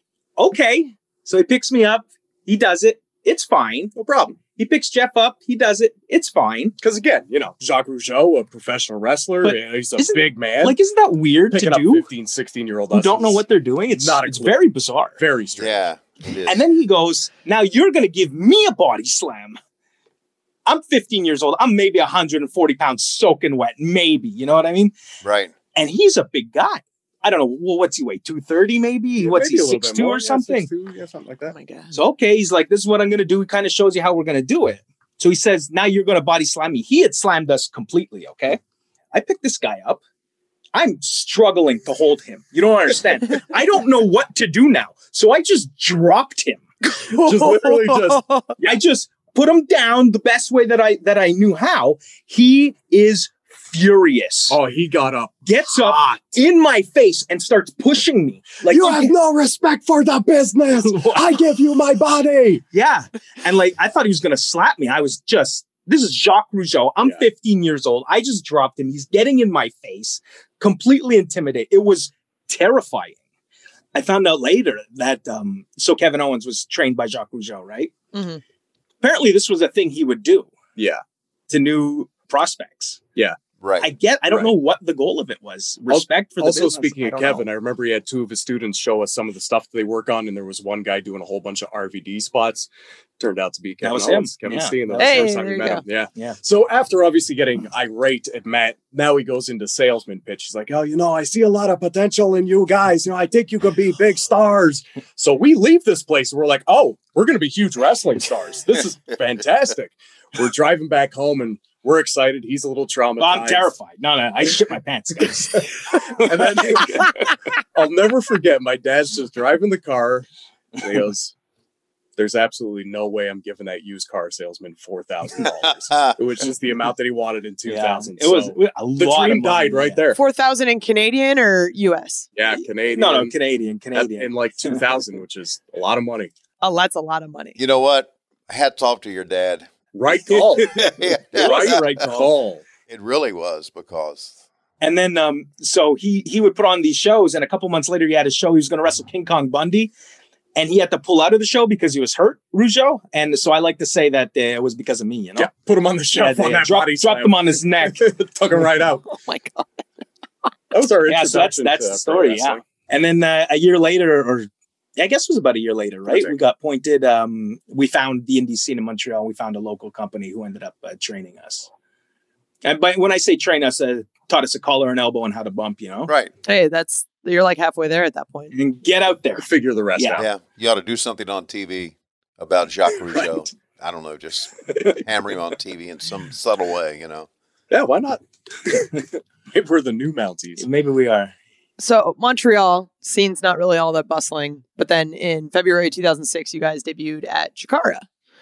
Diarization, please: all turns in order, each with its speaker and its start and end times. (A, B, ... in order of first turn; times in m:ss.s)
0:00.4-0:06.8 A
0:04.0-0:04.4 B
0:06.8-0:10.8 B
0:09.4-0:12.1 A
0:11.5-0:14.7 B
0:12.9-0:15.2 A
0:15.2-0:15.9 B
0:15.6-0:16.6 C
0:16.5-0:19.6 A
0:20.7-0:24.9 A
0:25.2-0:25.6 C
0:25.7-0:30.7 A
0:29.2-0:31.6 B
0:31.5-0:32.0 D
0:31.9-0:38.6 A
0:39.1-0:40.0 A
0:40.7-0:46.6 A
0:47.0-0:48.5 D
0:47.1-0:48.2 B
0:48.6-0:54.6 A
0:54.5-0:55.8 B
0:55.5-0:59.1 A
0:58.6-1:02.6 B
1:00.7-1:01.4 A
1:02.7-1:13.2 A
1:07.0-1:07.3 B
1:13.9-1:18.0 A
1:18.1-1:18.4 D
1:19.0-1:20.5 A
1:20.8-1:21.0 B
1:21.5-1:23.0 A
1:23.6-1:23.9 C
1:23.8-1:27.4 A
1:25.9-1:53.7 B
1:33.8-1:35.4 A
1:35.0-1:35.8 D
1:53.2-1:57.2 A
1:55.6-2:00.3 B
2:00.8-2:01.3 B
2:02.2-2:10.2 B
2:05.4-2:06.2 C
2:07.7-2:10.0 A
2:10.2-2:12.3 D
2:12.4-2:13.4 B
2:12.9-2:14.8 A
2:13.9-2:16.3 B
2:16.6-2:17.6 D
2:17.6-2:19.7 C
2:19.9-2:22.6 B
2:20.6-2:22.1 C
2:21.4-2:21.8 A
2:22.9-2:24.4 C
2:24.8-2:29.9 A
2:30.6-2:35.5 A
2:35.4-2:39.1 B
2:36.1-2:38.0 A
2:39.1-2:39.8 D
2:40.7-2:42.6 B
2:41.1-2:51.7 A
2:46.1-2:46.4 B
2:52.6-2:56.1 A
2:56.4-2:58.6 D
2:58.5-2:59.4 A
2:59.4-3:00.3 B
3:00.0-3:00.2 A
3:00.2-3:07.3 C
3:03.2-3:03.4 B
3:07.7-3:10.7 B
3:10.6-3:11.3 A
3:11.8-3:18.0 D